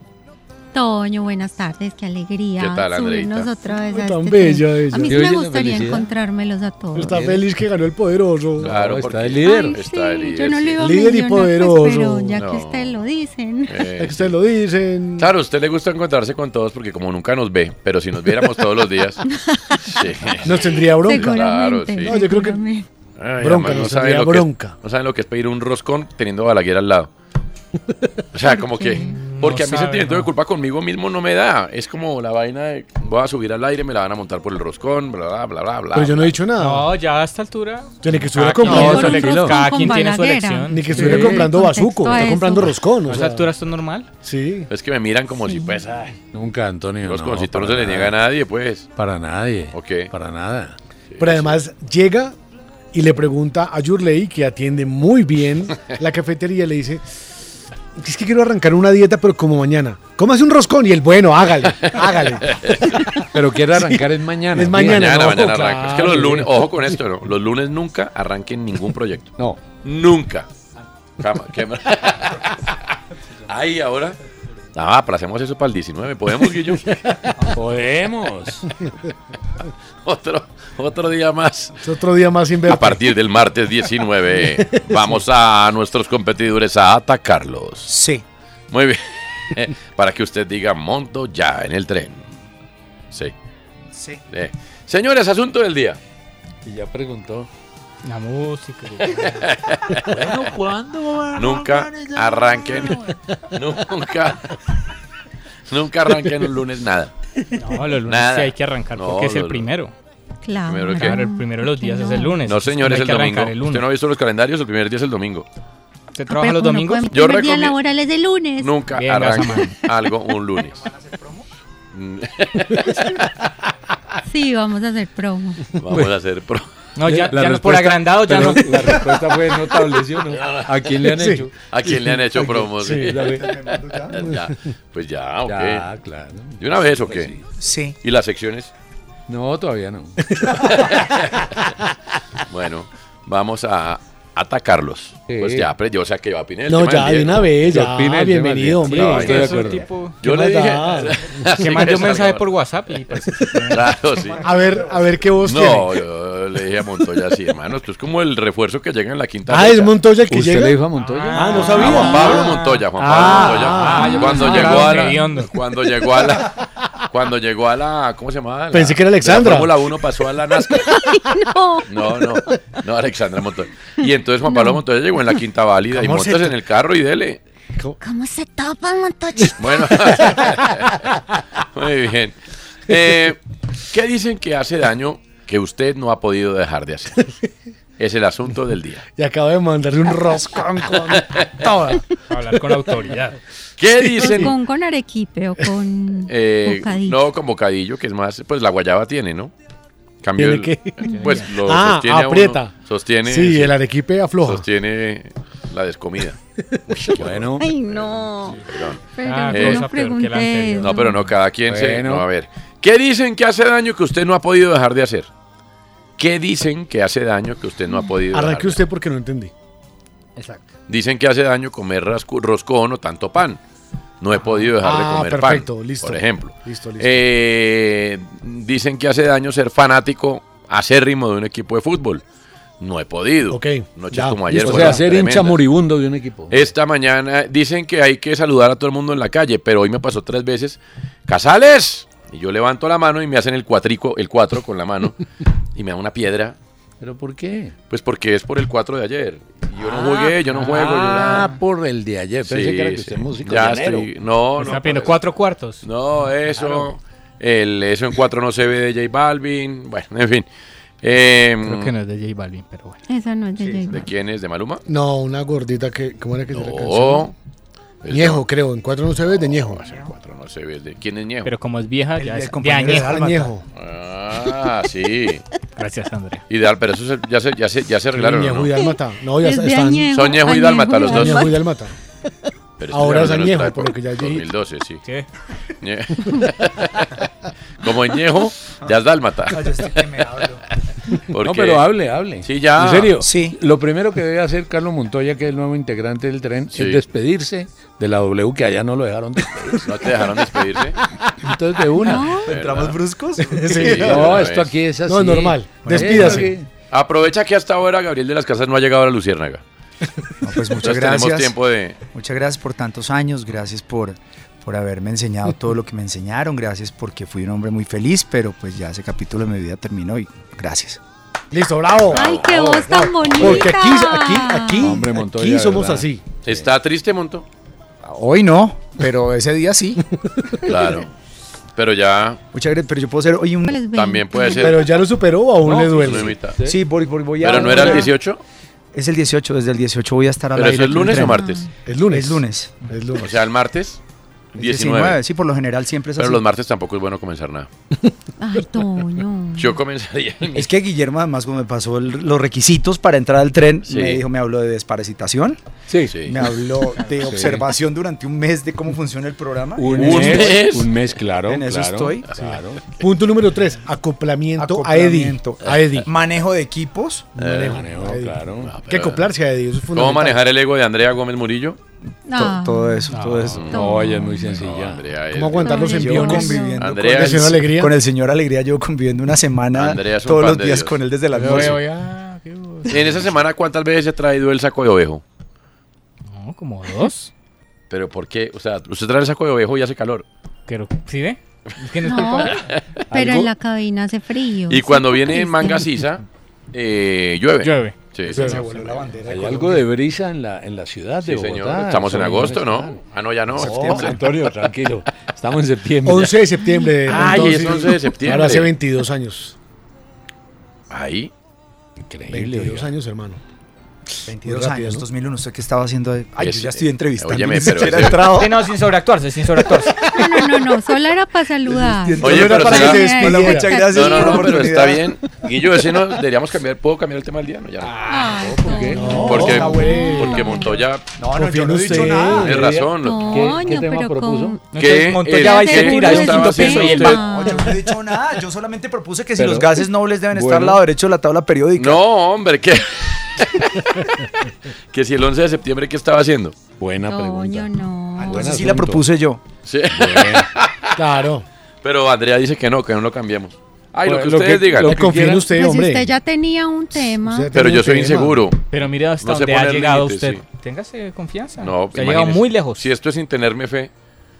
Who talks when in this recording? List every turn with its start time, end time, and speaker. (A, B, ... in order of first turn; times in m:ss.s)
0:00.7-0:07.2 A
0:02.6-0:03.5 B
0:03.8-0:05.4 C
0:05.0-0:06.1 D
0:07.0-0:08.7 C
0:07.0-0:07.4 D
0:08.6-0:09.8 D
0:08.6-0:10.9 B
0:09.4-0:13.8 A
0:10.8-0:12.4 C
0:12.3-0:13.0 B
0:13.6-0:14.3 B
0:14.0-0:15.3 C
0:15.2-0:19.2 B
0:19.2-0:22.8 A
0:19.9-0:22.2 B
0:20.4-0:21.4 C
0:22.1-0:22.6 C
0:23.2-0:27.1 B
0:23.4-0:24.8 C
0:28.3-0:36.3 B
0:28.4-0:29.2 A
0:29.2-0:30.3 E
0:35.9-0:36.9 C
0:36.6-0:41.4 E
0:38.0-0:39.3 C
0:38.6-0:39.7 D
0:38.8-0:42.8 A
0:40.7-0:43.5 C
0:41.0-0:41.4 D
0:43.1-0:44.1 E
0:44.2-0:44.7 C
0:44.7-0:46.1 B
0:46.1-0:48.1 D
0:47.0-0:48.9 B
0:49.0-0:50.7 D
0:49.7-0:50.1 B
0:51.1-0:51.6 B
0:51.2-0:52.3 C
0:52.9-0:57.0 C
0:58.0-1:03.1 C
1:01.8-1:03.0 B
1:03.3-1:06.6 D
1:03.8-1:06.0 C
1:04.7-1:10.5 B
1:11.2-1:12.5 B
1:13.4-1:14.2 B
1:14.7-1:17.2 B
1:17.5-1:18.7 D
1:20.0-1:21.8 B
1:21.8-1:23.0 C
1:22.7-1:27.9 B
1:27.9-1:28.2 F
1:28.7-1:32.2 B
1:33.9-1:34.2 F
1:34.3-1:36.0 B
1:36.6-1:37.5 D
1:38.0-1:39.4 E
1:39.2-1:40.0 B
1:40.1-1:42.2 D
1:41.4-1:43.0 B
1:43.5-1:44.5 B
1:45.7-1:47.1 B
1:47.6-1:49.9 E
1:48.1-1:49.7 B
1:50.4-1:52.4 A
1:50.6-1:51.2 B
1:51.0-1:53.8 E
1:52.4-1:55.4 B
1:56.1-1:57.1 E
1:56.3-1:58.7 A
1:57.1-1:57.8 B
1:58.6-2:00.8 B
1:59.0-1:59.8 E
2:01.0-2:01.4 F
2:01.9-2:03.2 B
2:04.3-2:05.6 A
2:05.8-2:06.6 B
2:07.0-2:08.9 E
2:07.0-2:11.5 D
2:10.3-2:10.7 B
2:11.0-2:11.4 C
2:11.6-2:15.8 B
2:12.3-2:12.7 F
2:12.8-2:13.2 C
2:13.0-2:13.5 D
2:13.2-2:14.3 F
2:15.4-2:17.4 D
2:16.6-2:17.3 B
2:17.6-2:18.0 F
2:18.0-2:18.7 B
2:19.3-2:20.2 D
2:20.3-2:20.8 C
2:20.4-2:21.5 B
2:22.5-2:27.6 B
2:25.3-2:25.7 D
2:26.7-2:29.6 C
2:27.7-2:29.9 D
2:28.8-2:29.7 B
2:29.0-2:30.2 E
2:30.2-2:31.3 C
2:30.2-2:32.5 B
2:31.6-2:33.9 E
2:33.7-2:34.5 B
2:34.2-2:35.1 F
2:34.4-2:35.9 C
2:35.4-2:39.9 B
2:39.5-2:44.7 C
2:40.3-2:42.2 D
2:41.0-2:42.8 E
2:41.6-2:46.6 B
2:43.0-2:45.2 D
2:43.9-2:45.5 E
2:44.1-2:44.5 A
2:47.1-2:50.9 B
2:48.7-2:49.7 C
2:50.6-2:52.4 A
2:51.8-2:57.4 B
2:54.4-2:55.4 A
2:55.9-2:56.5 C
2:58.0-3:00.3 A
2:59.6-3:01.0 B
3:01.6-3:02.4 B
3:02.9-3:03.4 B
3:03.9-3:07.2 B
3:08.0-3:09.0 B
3:09.2-3:12.0 C
3:12.3-3:13.4 E
3:13.8-3:14.6 B
3:14.1-3:17.2 A
3:14.2-3:14.5 C
3:16.3-3:19.5 B
3:20.2-3:23.8 B
3:20.4-3:22.7 C
3:21.1-3:21.5 E
3:23.2-3:24.6 C
3:24.4-3:29.9 B
3:27.2-3:27.7 D
3:27.6-3:31.3 A
3:29.2-3:30.9 E
3:30.8-3:35.3 B
3:31.7-3:32.3 D
3:36.2-3:38.8 B
3:38.3-3:39.5 C
3:40.4-3:40.6 E
3:40.9-3:43.6 B
3:44.2-3:52.2 B
3:44.7-3:47.2 C
3:52.8-3:55.6 B
3:53.5-3:55.0 C
3:54.5-3:56.6 D
3:56.5-4:05.2 B
4:05.8-4:06.6 B
4:07.0-4:07.7 D
4:07.9-4:11.5 B
4:09.8-4:14.1 D
4:12.5-4:15.2 B
4:14.6-4:15.8 E
4:15.8-4:20.4 B
4:16.6-4:16.9 D
4:21.0-4:21.9 B
4:21.6-4:23.0 E
4:23.1-4:24.1 A
4:23.6-4:23.9 F
4:23.9-4:24.8 B
4:24.8-4:27.3 C
4:26.5-4:27.3 B
4:28.0-4:28.4 B
4:28.1-4:29.8 C
4:29.4-4:31.5 B
4:31.4-4:33.1 E
4:32.2-4:33.5 F
4:32.8-4:33.6 C
4:33.7-4:35.4 B
4:35.8-4:36.4 E
4:36.5-4:38.7 B
4:38.2-4:40.1 C
4:38.8-4:41.6 A
4:40.1-4:41.5 B
4:41.0-4:41.9 C
4:42.8-4:45.0 B
4:42.9-4:44.4 C
4:45.8-4:47.1 B
4:47.8-4:50.3 B
4:49.5-4:50.6 F
4:51.3-4:51.8 B
4:51.4-4:59.9 D
4:52.4-4:53.2 B
4:53.2-4:53.6 F
4:56.7-4:57.0 B
4:59.8-5:01.0 B
5:01.4-5:02.3 D
5:02.0-5:02.6 A
5:02.0-5:03.0 B
5:02.2-5:04.4 F
5:03.5-5:04.1 C
5:03.7-5:04.7 B
5:04.0-5:06.7 D
5:05.0-5:06.5 C
5:05.8-5:06.5 F
5:06.9-5:09.6 B
5:10.4-5:11.5 F
5:10.8-5:12.0 B
5:12.1-5:21.0 F
5:21.5-5:26.2 C
5:22.1-5:24.9 A
5:22.1-5:22.4 B
5:22.2-5:22.5 D
5:23.4-5:23.7 D
5:24.8-5:26.7 D
5:26.4-5:27.4 B
5:28.0-5:30.0 F
5:30.6-5:31.1 B
5:31.8-5:32.4 B
5:32.5-5:33.7 F
5:33.7-5:34.8 A
5:33.9-5:34.9 B
5:34.6-5:36.4 C
5:35.7-5:36.8 D
5:35.7-5:36.6 B
5:36.6-5:38.1 F
5:37.4-5:38.4 B
5:38.9-5:41.4 F
5:40.5-5:41.7 B
5:41.1-5:41.7 A
5:41.8-5:43.3 C
5:42.1-5:42.8 F
5:43.2-5:44.0 B
5:44.5-5:46.4 F
5:44.6-5:45.2 B
5:46.2-5:47.7 B
5:48.4-5:49.8 A
5:49.5-5:50.7 B
5:50.5-5:55.6 F
5:53.8-5:54.2 B
5:55.9-5:56.2 D
5:56.1-5:56.4 B
5:56.3-6:00.6 F
5:57.2-5:57.7 D
5:59.8-6:02.8 D
5:59.9-6:00.9 B
6:01.5-6:02.3 F
6:03.0-6:06.1 C
6:04.6-6:07.3 F
6:07.4-6:07.8 B
6:07.4-6:10.4 C
6:07.6-6:08.8 D
6:08.6-6:09.3 B
6:09.9-6:11.8 B
6:12.3-6:14.6 A
6:12.3-6:13.8 F
6:13.1-6:13.5 E
6:13.5-6:16.0 B
6:13.7-6:15.0 D
6:15.3-6:17.9 C
6:15.6-6:16.8 A
6:15.7-6:21.8 F
6:16.8-6:17.6 B
6:19.7-6:21.8 B
6:21.3-6:23.2 E
6:22.9-6:25.2 B
6:26.2-6:27.3 E
6:27.9-6:30.2 B
6:30.7-6:32.6 E
6:32.0-6:32.6 A
6:32.4-6:32.8 B
6:33.1-6:36.0 A
6:33.1-6:33.5 D
6:34.7-6:38.6 B
6:37.6-6:38.1 E
6:38.3-6:38.9 C
6:38.3-6:39.8 F
6:39.2-6:43.0 D
6:41.2-6:44.2 B
6:43.6-6:46.4 D
6:43.6-6:44.2 F
6:43.6-6:44.0 C
6:46.0-6:49.5 C
6:46.6-6:47.1 A
6:47.1-6:48.7 B
6:47.1-6:47.5 D
6:50.9-6:51.3 B
6:52.0-6:52.9 D
6:52.3-6:53.4 C
6:54.3-6:58.6 F
6:54.4-6:55.0 C
6:56.4-6:58.3 B
6:58.4-7:00.0 E
7:00.0-7:04.6 A
7:01.6-7:05.1 F
7:02.2-7:03.1 B
7:02.2-7:03.7 C
7:03.8-7:08.0 B
7:07.8-7:09.2 D
7:08.0-7:10.8 A
7:09.0-7:10.4 C
7:09.2-7:11.0 B
7:09.4-7:09.8 F
7:11.2-7:12.6 F
7:11.3-7:12.6 C
7:11.9-7:14.6 D
7:12.2-7:13.6 B
7:12.9-7:17.8 A
7:14.7-7:17.2 E
7:14.7-7:17.3 B
7:17.3-7:22.0 F
7:19.4-7:20.8 D
7:21.8-7:23.8 B
7:24.9-7:26.6 B
7:26.8-7:27.7 D
7:27.0-7:28.5 A
7:28.2-7:29.4 F
7:28.2-7:29.0 D
7:29.6-7:31.0 B
7:29.9-7:30.5 D
7:31.0-7:31.4 C
7:31.8-7:35.1 B
7:34.0-7:35.4 D
7:34.8-7:36.1 C
7:35.4-7:37.5 A
7:37.2-7:38.4 C
7:37.5-7:38.7 B
7:38.7-7:42.9 E
7:39.2-7:40.4 B
7:41.6-7:43.9 B